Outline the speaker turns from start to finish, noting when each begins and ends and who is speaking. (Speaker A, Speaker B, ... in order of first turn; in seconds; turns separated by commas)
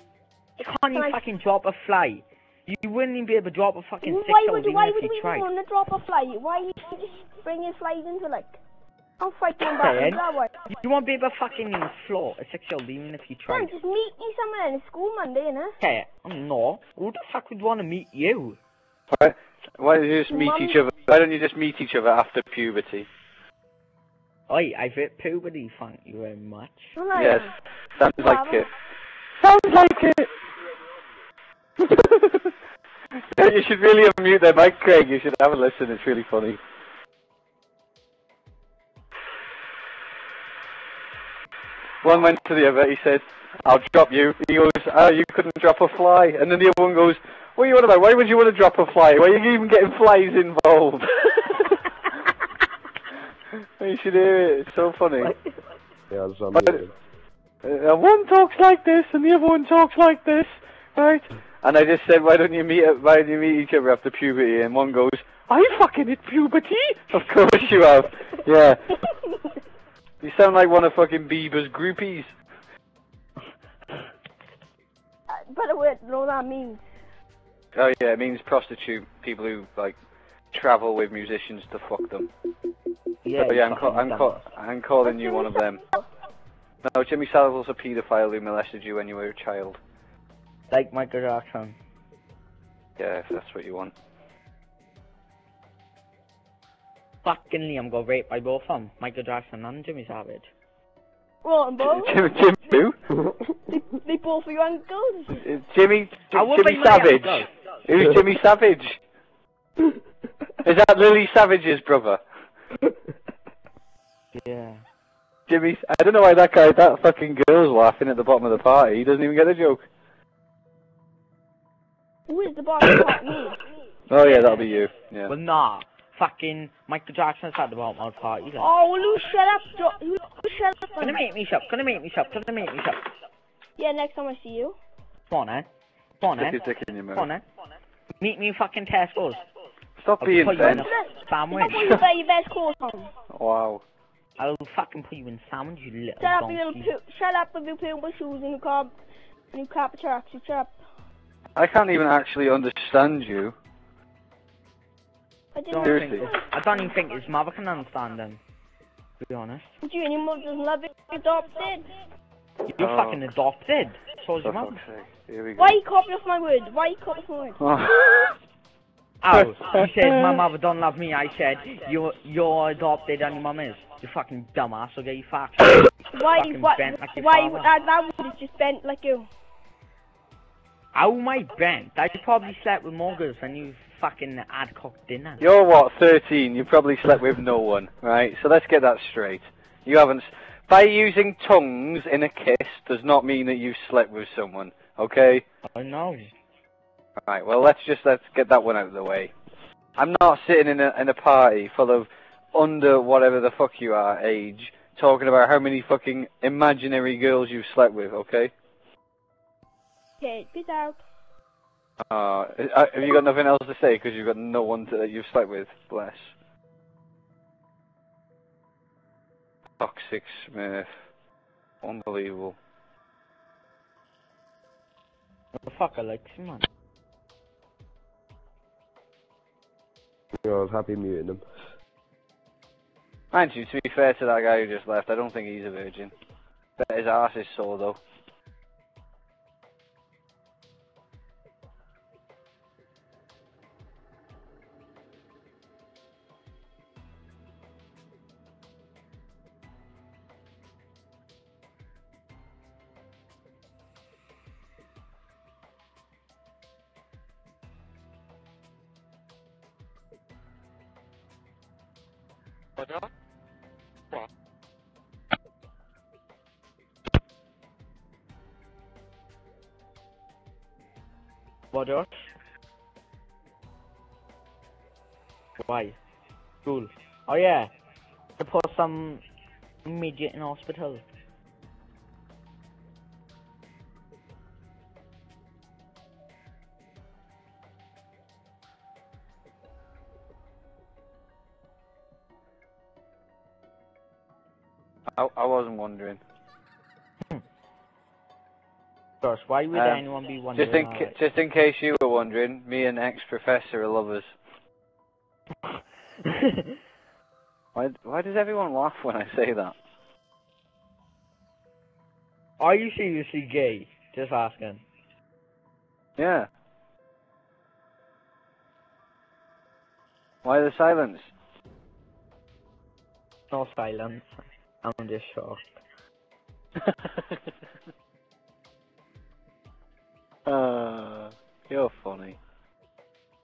Speaker A: 0.6-5.5, Speaker B: 0.9-1.2, Speaker B: 4.0-8.6, Speaker B: 9.2-10.6, Speaker A: 9.7-13.7, Speaker B: 13.5-15.8, Speaker A: 15.8-18.6, Speaker C: 19.1-23.1, Speaker B: 20.3-20.8, Speaker A: 24.5-26.9, Speaker B: 26.9-27.5, Speaker C: 27.1-28.7, Speaker B: 28.0-28.6, Speaker C: 29.4-30.3, Speaker C: 31.8-32.5, Speaker C: 33.1-36.6, Speaker C: 42.0-51.9, Speaker C: 53.6-55.3, Speaker D: 56.1-56.9, Speaker C: 57.6-69.0, Speaker C: 70.2-72.3, Speaker B: 75.3-76.8, Speaker C: 77.7-80.0, Speaker C: 80.5-82.3, Speaker A: 83.2-84.5, Speaker C: 83.4-85.8, Speaker B: 85.0-86.0, Speaker C: 86.8-89.8, Speaker A: 90.7-91.8, Speaker C: 93.0-93.9, Speaker A: 97.2-100.5, Speaker B: 101.4-102.2, Speaker C: 101.8-102.9, Speaker B: 103.7-105.5, Speaker C: 105.3-109.0, Speaker A: 106.3-107.5, Speaker C: 110.6-112.2, Speaker A: 114.3-114.8, Speaker C: 115.5-119.8, Speaker B: 122.3-123.6, Speaker C: 124.1-125.3, Speaker A: 124.2-128.7, Speaker B: 128.6-131.2, Speaker A: 131.0-133.1, Speaker B: 133.8-134.8, Speaker A: 135.3-135.7, Speaker A: 136.2-137.4, Speaker C: 136.4-137.3, Speaker A: 138.2-139.4, Speaker C: 140.0-140.9, Speaker A: 140.2-142.0, Speaker B: 140.6-143.1, Speaker C: 143.3-143.8, Speaker A: 144.4-146.9, Speaker B: 146.2-148.9, Speaker B: 149.5-150.7, Speaker C: 151.6-153.5, Speaker B: 155.5-156.4, Speaker A: 155.7-158.4, Speaker C: 155.8-156.3, Speaker A: 159.2-159.7, Speaker B: 159.8-161.9, Speaker A: 162.7-164.8, Speaker C: 162.8-163.2, Speaker C: 164.4-165.8, Speaker B: 165.6-167.6, Speaker C: 167.6-168.3, Speaker A: 169.2-177.7, Speaker C: 169.3-170.4, Speaker B: 176.1-179.3, Speaker A: 180.9-185.4, Speaker C: 185.4-195.4, Speaker A: 195.7-196.3, Speaker C: 197.2-199.3, Speaker C: 200.0-208.5, Speaker B: 210.2-211.0, Speaker C: 212.1-216.3, Speaker C: 219.8-220.9, Speaker C: 221.8-222.6, Speaker A: 225.6-226.7, Speaker D: 230.4-231.4, Speaker C: 233.3-236.1, Speaker C: 236.8-238.0, Speaker A: 271.7-272.1, Speaker A: 275.6-276.0, Speaker A: 276.6-277.7, Speaker A: 278.4-279.2, Speaker A: 279.8-281.0, Speaker C: 295.1-296.2, Speaker A: 299.2-301.1, Speaker C: 299.7-300.0, Speaker C: 300.5-304.3, Speaker A: 305.7-306.8, Speaker C: 307.7-309.7, Speaker A: 312.6-314.8, Speaker C: 316.2-316.5, Speaker C: 320.4-321.3, Speaker A: 323.5-325.7, Speaker C: 326.8-327.4, Speaker C: 330.4-332.4